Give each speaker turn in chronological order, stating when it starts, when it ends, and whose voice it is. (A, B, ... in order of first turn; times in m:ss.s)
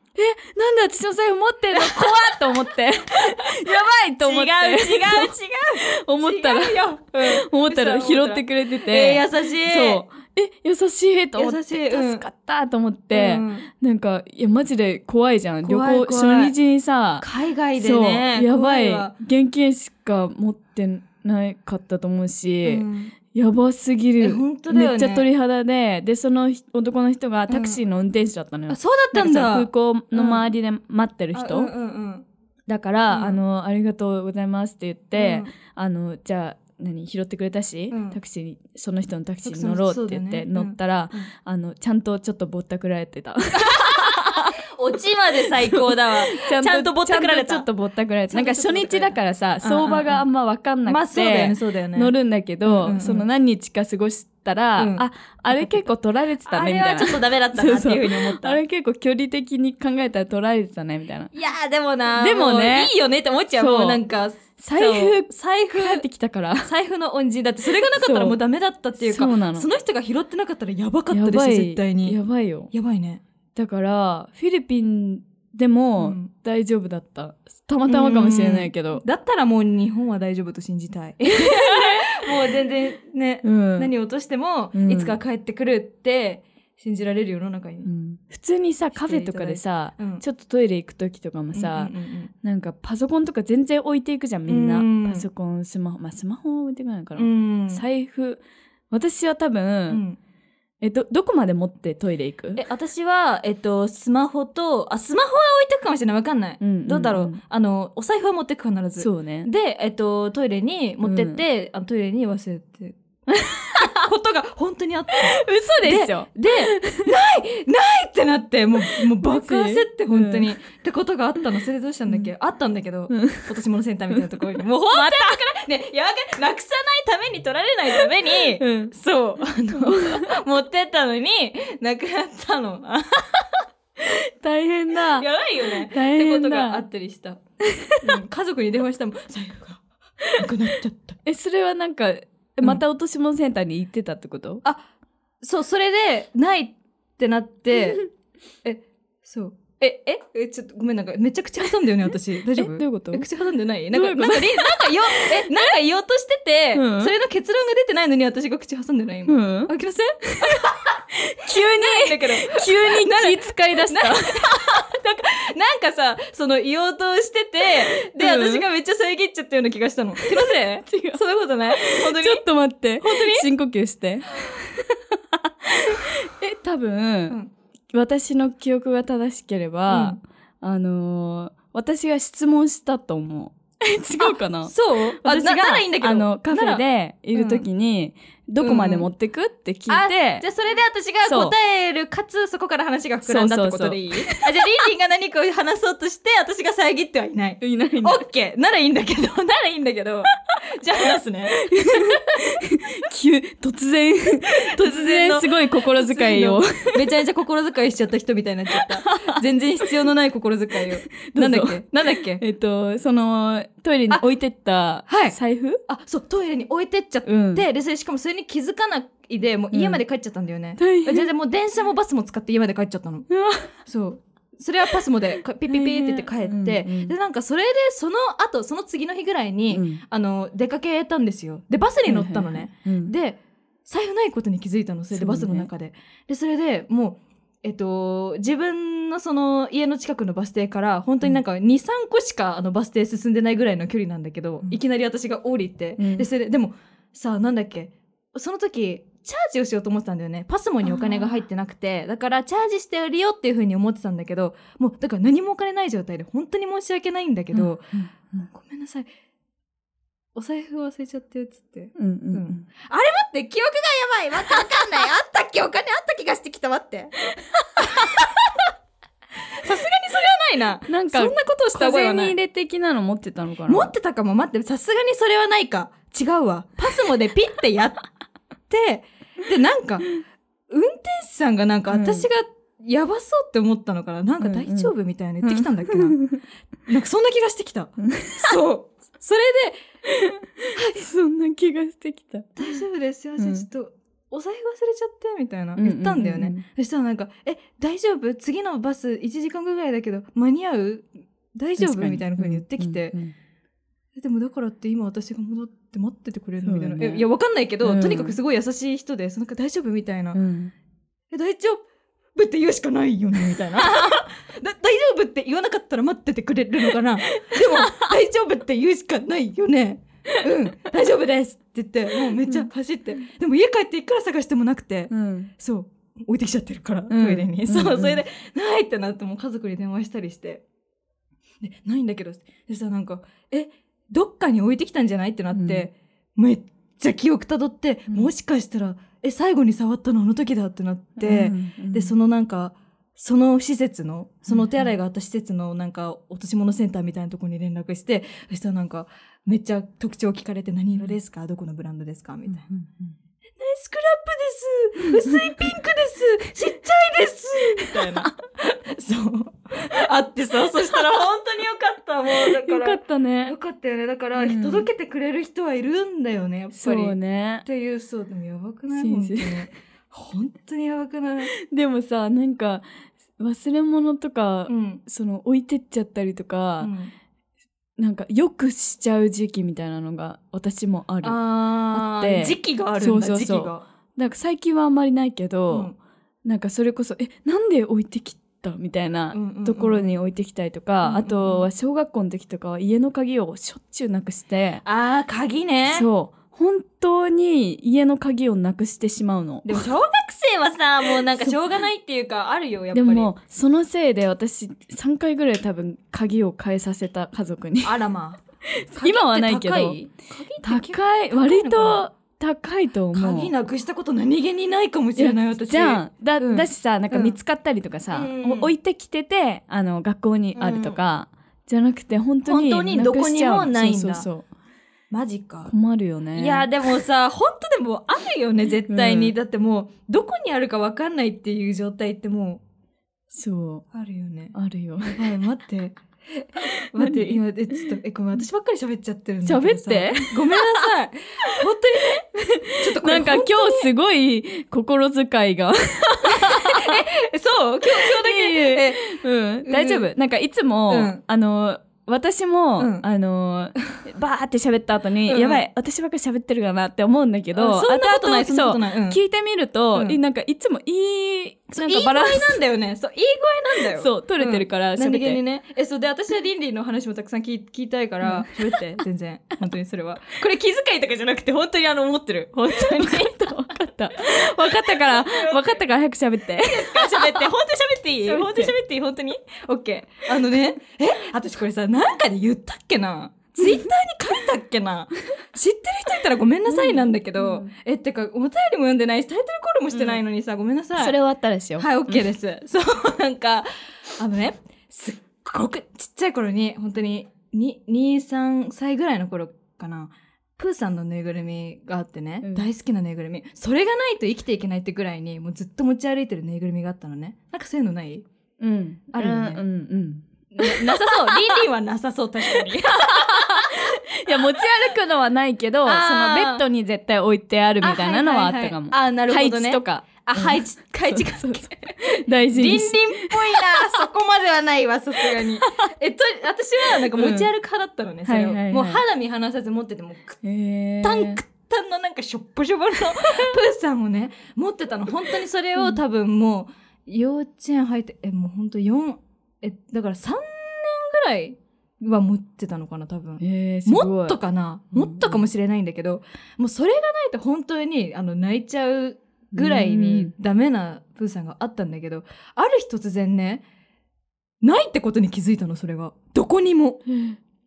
0:00.2-0:05.3 A
0:01.7-0:02.6 B
0:03.2-0:03.6 B
0:04.2-0:10.0 B
0:05.9-0:31.7 A
0:11.4-0:12.2 B
0:13.1-0:13.7 B
0:15.6-0:16.6 B
0:17.2-0:19.2 B
0:22.6-0:23.1 B
0:24.2-0:25.3 B
0:27.5-0:27.8 B
0:28.7-0:30.5 B
0:31.3-0:32.3 B
0:32.7-0:44.5 A
0:33.1-0:33.4 B
0:35.1-0:35.5 B
0:37.9-0:38.2 B
0:39.4-0:41.3 B
0:43.6-0:47.7 B
0:45.7-1:01.3 A
0:48.3-0:50.3 B
0:50.8-0:52.1 B
0:52.6-0:53.3 B
0:54.8-0:55.9 B
0:56.4-0:58.6 B
1:01.3-1:06.0 B
1:02.2-1:02.9 A
1:03.6-1:04.0 A
1:04.6-1:06.7 A
1:06.6-1:12.2 B
1:07.8-1:08.4 A
1:09.0-1:09.7 A
1:11.1-1:12.7 A
1:12.7-1:13.2 B
1:13.6-1:19.0 A
1:16.0-1:16.3 B
1:17.9-1:27.9 B
1:21.3-1:22.2 A
1:23.4-1:23.9 A
1:24.7-1:25.2 A
1:27.8-1:40.0 A
1:28.9-1:30.2 B
1:31.5-1:32.3 B
1:34.5-1:35.3 B
1:37.2-1:37.8 B
1:39.9-1:40.2 B
1:40.8-1:42.6 A
1:42.6-1:53.0 B
1:46.6-1:47.4 A
1:49.0-1:49.5 A
1:51.0-1:51.4 A
1:53.3-1:53.9 A
1:53.8-2:13.5 B
1:55.4-1:57.1 A
1:58.9-2:00.5 A
2:03.1-2:03.5 A
2:04.1-2:05.4 A
2:08.6-2:08.9 A
2:09.7-2:10.3 A
2:14.0-2:16.8 A
2:15.0-2:17.4 B
2:17.7-2:18.2 A
2:18.0-2:21.2 B
2:21.2-2:24.6 A
2:25.4-2:28.0 B
2:28.6-2:52.4 B
2:32.6-2:33.3 A
2:33.9-2:35.7 A
2:36.8-2:37.1 A
2:39.3-2:39.7 A
2:41.1-2:44.8 A
2:47.7-2:48.6 A
2:50.2-2:51.2 A
2:51.8-2:57.4 A
2:53.0-2:53.5 B
2:57.9-3:10.5 A
2:59.9-3:00.2 B
3:04.2-3:06.8 B
3:07.3-3:07.6 B
3:08.6-3:09.1 B
3:09.9-3:22.3 B
3:11.2-3:11.6 A
3:13.3-3:14.4 A
3:17.6-3:18.2 A
3:21.6-3:27.1 A
3:24.8-3:32.4 B
3:28.8-3:29.4 A
3:31.2-3:35.8 A
3:35.1-3:43.3 B
3:37.3-3:37.7 A
3:39.7-3:40.0 A
3:40.8-3:41.3 A
3:43.3-3:43.8 A
3:43.8-4:17.9 B
3:45.7-3:47.2 A
3:49.7-3:50.0 A
3:52.1-3:53.1 A
3:55.1-3:55.7 A
4:06.0-4:06.3 A
4:10.8-4:11.4 A
4:17.5-4:18.5 A
4:18.5-4:19.1 B
4:20.4-4:27.2 B
4:22.0-4:22.6 A
4:27.8-4:28.3 A
4:27.8-4:28.3 B
4:29.6-4:32.4 B
4:30.9-4:33.9 A
4:33.7-4:38.0 B
4:38.7-4:40.1 B
4:40.7-4:46.2 B
4:41.9-4:42.3 A
4:44.4-4:46.4 A
4:46.9-4:49.8 B
4:48.0-4:48.5 A
4:50.1-4:52.8 A
4:50.7-4:51.0 B
4:52.6-5:03.2 B
4:53.4-4:53.7 A
4:55.8-4:56.6 A
5:01.8-5:03.3 A
5:04.2-5:10.4 B
5:06.6-5:07.3 A
5:07.8-5:08.4 A
5:10.3-5:10.7 A
5:11.3-5:11.8 B
5:12.4-5:30.6 B
5:13.5-5:14.2 A
5:17.5-5:18.1 A
5:22.4-5:22.7 A
5:25.1-5:25.5 A
5:27.1-5:28.2 A
5:31.6-5:52.7 B
5:35.5-5:35.9 A
5:41.2-5:42.1 A
5:44.5-5:44.9 A
5:52.5-5:53.1 A
5:53.6-6:11.5 B
5:55.3-5:55.7 A
5:57.9-5:58.3 A
6:02.4-6:03.6 A
6:04.4-6:04.9 A
6:06.7-6:07.6 A
6:08.9-6:09.7 A
6:11.6-6:12.8 A
6:13.4-6:16.9 A
6:14.7-6:15.0 B
6:16.8-6:17.1 B
6:18.0-6:25.9 A
6:21.2-6:23.8 B
6:25.7-6:26.0 B
6:26.4-6:34.8 A
6:29.3-6:30.1 B
6:31.0-6:31.7 B
6:34.8-6:36.1 B
6:35.9-6:39.8 A
6:39.6-6:43.3 B
6:41.2-6:41.6 A
6:42.9-6:48.0 A
6:47.8-6:48.4 B
6:48.7-6:50.0 A
6:48.9-6:52.1 B
6:50.6-6:53.5 A
6:53.1-6:57.4 B
6:55.2-7:04.5 A
6:58.1-6:58.7 B
7:00.6-7:01.0 B
7:02.5-7:04.3 B
7:05.1-7:05.7 B
7:05.7-7:06.7 A
7:06.4-7:12.6 B
7:08.9-7:09.4 A
7:13.3-7:13.8 A
7:13.9-7:23.9 B
7:14.5-7:15.2 A
7:17.0-7:18.0 A
7:19.4-7:20.6 A
7:22.4-7:27.0 A
7:26.2-7:30.1 B
7:27.8-7:42.6 A
7:30.9-7:31.2 B
7:32.8-7:33.0 B
7:35.3-7:35.6 B
7:37.5-7:39.2 B
7:41.7-7:53.5 B
7:44.0-7:45.4 A
7:48.2-7:48.6 A
7:52.7-7:57.6 A
7:54.3-7:55.8 B
7:56.6-8:11.2 B
7:58.2-7:58.7 A
8:06.7-8:07.7 A
8:09.9-8:10.2 A
8:11.0-8:12.2 A
8:11.8-8:28.2 B
8:28.6-8:31.2 A
8:29.1-8:29.6 B
8:30.5-8:33.8 B
8:32.6-8:44.0 A
8:35.8-8:36.6 B
8:37.8-8:50.4 B
8:45.4-8:45.9 A
8:47.0-8:47.5 A
8:48.3-8:49.0 A
8:50.4-8:51.4 A
8:51.0-9:13.6 B
9:03.4-9:04.4 A
9:04.9-9:05.4 A
9:09.5-9:10.3 A
9:14.6-9:17.0 B
9:17.1-9:17.4 A